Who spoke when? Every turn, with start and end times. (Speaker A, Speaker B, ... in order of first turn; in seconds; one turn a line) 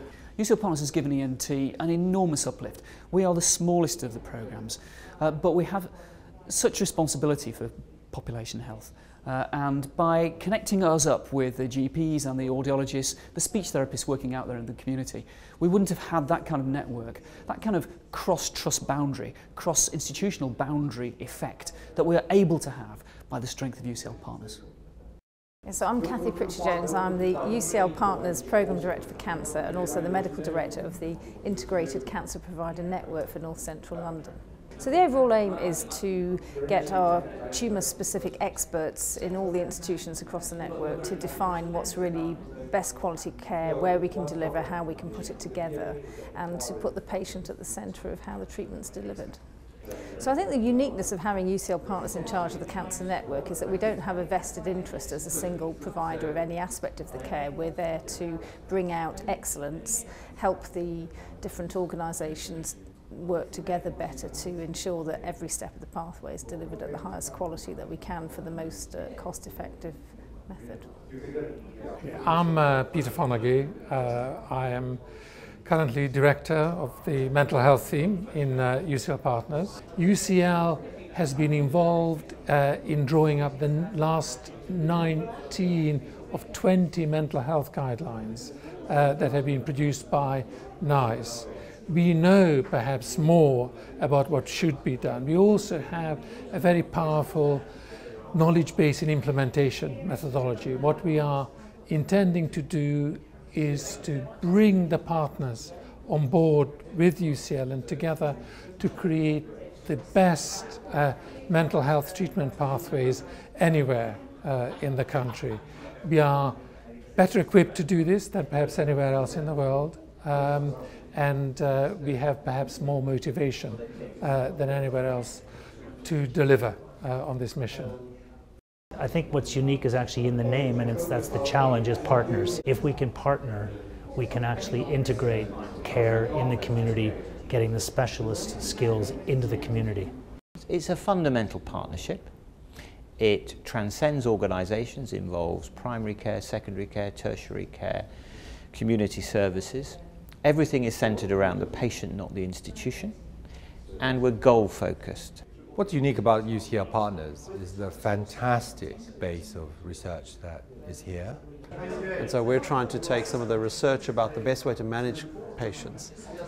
Speaker A: 0.3-24.6
Speaker B: 25.6-49.4
Speaker B: 50.2-70.9
Speaker C: 72.0-75.0
Speaker C: 75.6-97.6
Speaker C: 98.3-116.6
Speaker C: 117.2-125.5
Speaker C: 126.0-128.0
Speaker D: 128.9-140.1
Speaker E: 140.7-142.3
Speaker E: 143.2-148.1
Speaker E: 148.7-153.1
Speaker E: 154.0-155.4
Speaker F: 155.8-161.4
Speaker G: 162.2-166.2